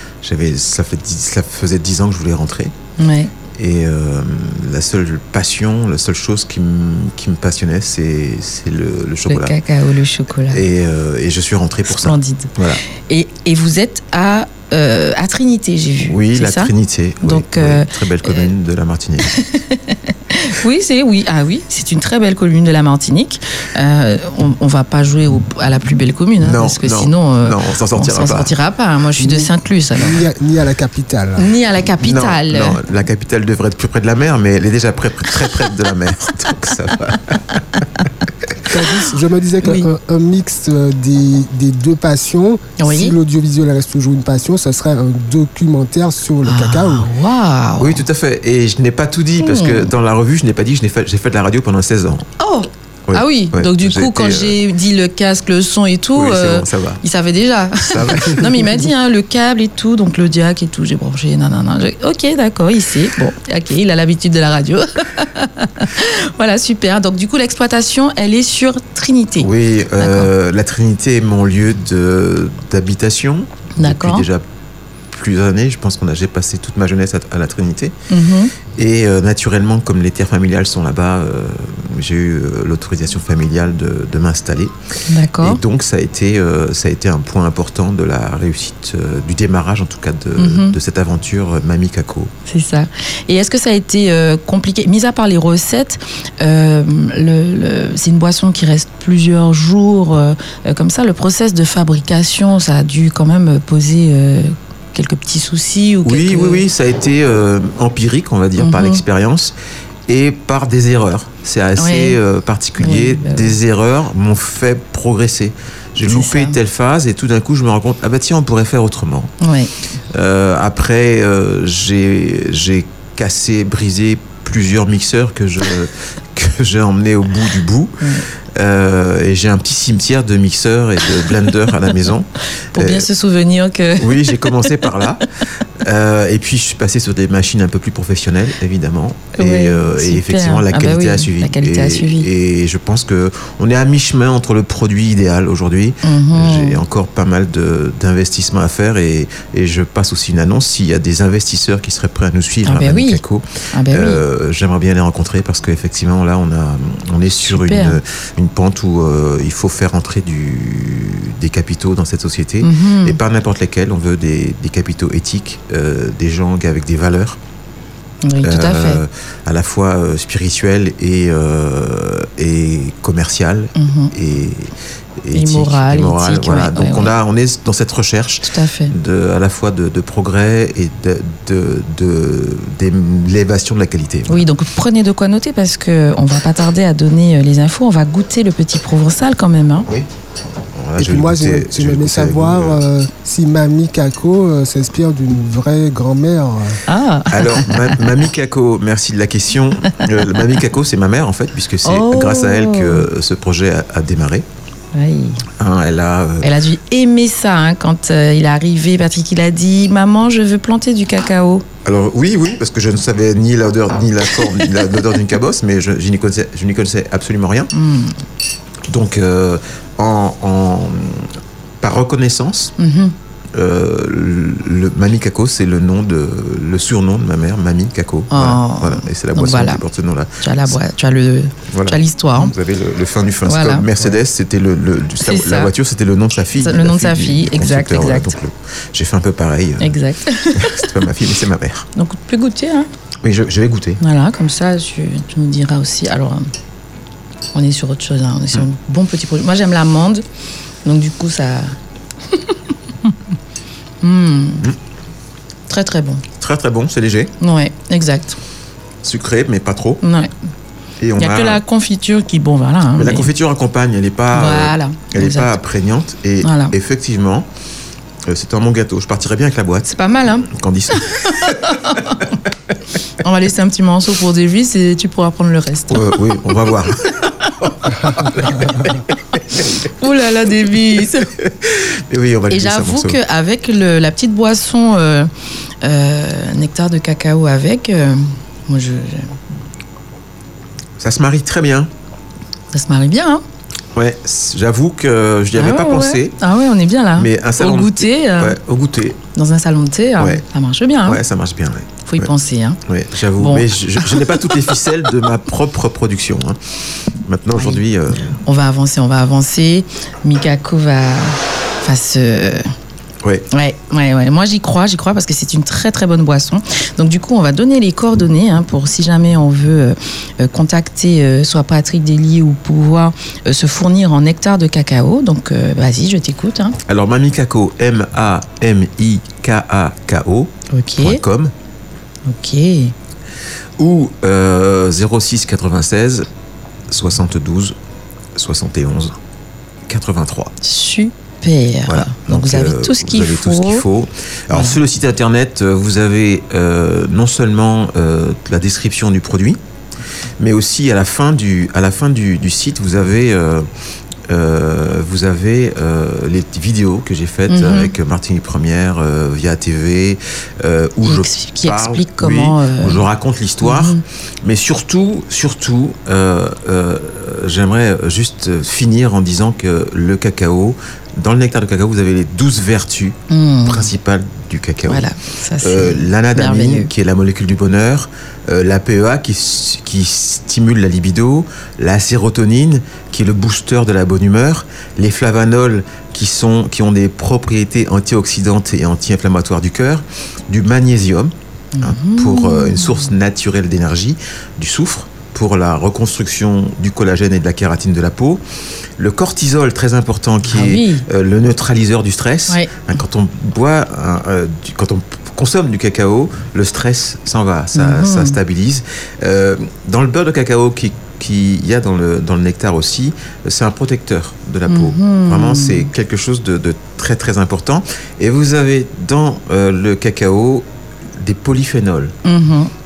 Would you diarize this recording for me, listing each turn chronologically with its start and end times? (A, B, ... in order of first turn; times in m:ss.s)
0:00.2-0:02.7 A
0:03.0-0:03.3 B
0:03.6-0:09.5 A
0:09.3-0:10.6 B
0:10.5-0:12.8 A
0:11.9-0:16.7 B
0:16.0-0:19.3 A
0:17.2-0:18.5 B
0:19.3-0:30.2 B
0:26.4-0:28.5 A
0:29.2-0:31.5 C
0:31.4-0:32.8 B
0:32.0-0:37.6 A
0:38.7-0:47.1 C
0:42.8-0:43.1 B
0:46.4-0:48.0 B
0:47.8-0:52.3 A
0:49.4-0:49.9 B
0:52.4-1:10.3 B
0:53.1-0:54.6 A
0:56.2-0:57.0 A
0:57.8-0:58.6 A
1:09.4-1:14.4 A
1:13.8-1:14.3 B
1:15.1-1:18.0 A
1:18.1-1:18.5 B
1:18.8-1:24.7 A
1:25.1-1:25.6 B
1:25.4-1:32.3 A
1:30.4-1:30.8 B
1:32.5-1:46.6 B
1:46.0-1:49.6 A
1:48.6-1:49.0 B
1:50.1-1:59.3 A
1:51.8-1:52.2 B
1:52.8-1:53.6 B
1:56.1-1:56.6 B
1:59.4-1:59.7 B
2:00.1-2:08.0 A
2:08.0-2:08.3 B
2:08.5-2:13.1 A
2:12.7-2:14.8 B
2:14.0-2:15.2 A
2:15.8-2:47.4 A
2:19.4-2:22.3 B
2:26.0-2:26.8 B
2:32.7-2:33.2 B
2:33.7-2:34.2 B
2:37.4-2:38.0 B
2:42.6-2:43.2 B
2:48.2-2:49.0 B
2:48.4-3:04.4 A
2:53.8-2:54.1 B
2:55.3-2:57.1 B
2:58.4-2:58.9 B
3:04.3-3:09.9 B
3:10.7-3:12.8 A
3:11.0-3:16.8 C
3:16.9-3:18.0 B
3:17.3-3:24.5 A
3:21.8-3:23.1 B
3:24.9-3:25.4 B
3:25.6-3:26.5 A
3:26.4-3:31.6 B
3:31.8-3:37.7 A
3:37.7-3:38.2 B
3:38.8-3:42.8 A
3:42.8-3:43.1 B
3:43.5-3:50.8 A
3:48.3-3:49.8 B
3:50.4-3:52.5 B
3:51.7-4:00.0 A
3:53.5-3:53.9 B
3:55.2-3:55.7 B
3:56.6-3:58.4 B
3:59.8-4:01.0 B
4:00.5-4:01.9 A
4:02.0-4:02.9 B
4:03.2-4:04.0 A
4:04.0-4:06.5 B
4:07.5-4:10.2 B
4:10.8-4:11.8 B
4:14.0-4:14.7 B
4:15.7-4:16.2 B
4:16.4-4:17.3 A
4:17.4-4:18.4 B
4:19.0-4:20.0 A
4:20.0-4:20.3 B
4:21.0-4:21.6 A
4:21.2-4:23.3 B
4:23.0-4:27.5 A
4:24.3-4:25.6 B
4:26.4-4:26.8 B
4:28.3-4:31.7 A
4:29.9-4:32.3 B
4:33.2-4:36.2 B
4:35.9-4:39.7 A
4:39.9-4:41.3 B
4:41.4-4:43.2 A
4:42.5-4:45.3 B
4:45.8-4:49.3 B
4:51.0-4:51.9 A
4:52.7-4:53.4 B
4:53.9-4:56.4 A
4:55.6-4:58.6 B
4:57.2-4:59.2 A
4:59.3-5:01.2 B
5:00.2-5:00.4 A
5:01.0-5:02.3 A
5:02.1-5:02.8 B
5:02.9-5:06.6 A
5:03.4-5:04.7 B
5:07.2-5:08.3 A
5:07.6-5:07.8 B
5:08.4-5:12.7 B
5:13.5-5:26.8 B
5:26.9-5:31.5 A
5:30.7-5:31.2 B
5:32.3-5:32.9 B
5:33.8-5:36.3 A
5:36.9-5:37.8 A
5:38.4-5:39.2 A
5:39.9-5:40.5 A
5:40.6-5:43.8 B
5:41.9-5:49.6 A
5:44.5-5:44.8 B
5:50.4-5:53.7 A
5:54.3-6:15.1 A
5:57.5-5:57.9 B
6:01.0-6:03.1 B
6:03.6-6:04.0 B
6:13.3-6:13.9 B
6:14.9-6:16.9 B
6:15.6-6:38.4 A
6:31.7-6:33.1 B
6:39.0-7:02.2 A
6:40.5-6:41.1 B
6:47.7-6:48.4 B
6:54.7-6:55.9 B
7:02.2-7:02.7 B